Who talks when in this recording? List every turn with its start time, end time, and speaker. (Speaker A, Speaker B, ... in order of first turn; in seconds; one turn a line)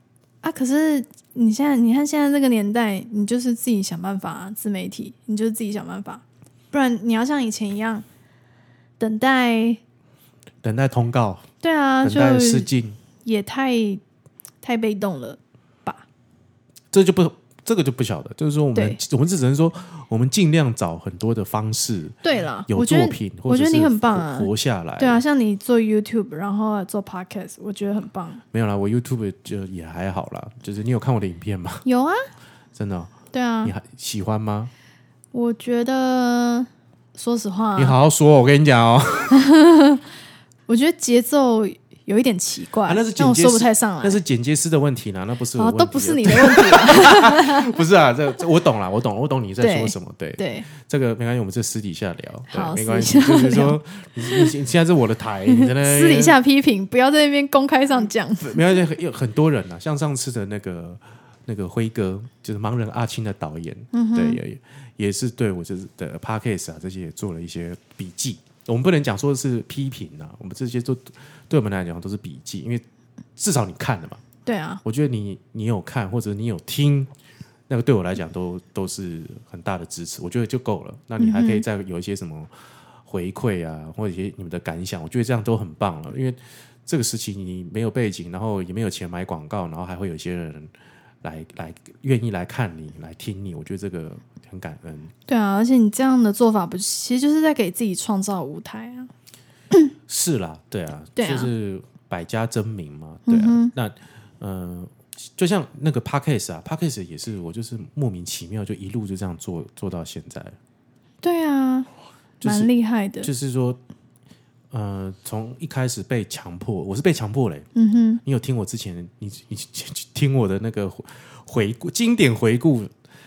Speaker A: 0.4-8.1
Speaker A: 9.0-9.8
Speaker B: 10.6-11.5
Speaker A: 11.6-12.7
Speaker B: 12.0-13.0
Speaker A: 13.2-14.0
Speaker A: 14.6-16.1
Speaker B: 16.9-22.2
Speaker A: 18.7-19.0
Speaker A: 22.2-28.4
Speaker B: 22.7-25.2
Speaker B: 28.5-31.8
Speaker A: 31.9-32.3
Speaker B: 32.8-34.7
Speaker A: 33.3-33.7
Speaker A: 35.3-38.0
Speaker B: 37.8-39.4
Speaker A: 39.3-40.0
Speaker A: 40.7-44.2
Speaker B: 42.9-56.4
Speaker A: 45.6-47.7
Speaker A: 49.6-50.7
Speaker A: 52.5-54.5
Speaker A: 55.5-58.8
Speaker B: 58.4-72.8
Speaker A: 63.9-64.4
Speaker B: 73.4-74.2
Speaker A: 74.5-74.8
Speaker B: 74.8-77.1
Speaker B: 77.7-82.5
Speaker A: 81.2-81.7
Speaker B: 83.1-95.1
Speaker A: 95.3-99.1
Speaker B: 100.1-110.6
Speaker A: 101.2-101.5
Speaker A: 103.3-103.7
Speaker A: 111.2-111.9
Speaker B: 112.4-112.7
Speaker A: 112.4-113.3
Speaker B: 113.2-113.8
Speaker B: 114.7-117.7
Speaker A: 117.8-118.2
Speaker B: 118.2-122.9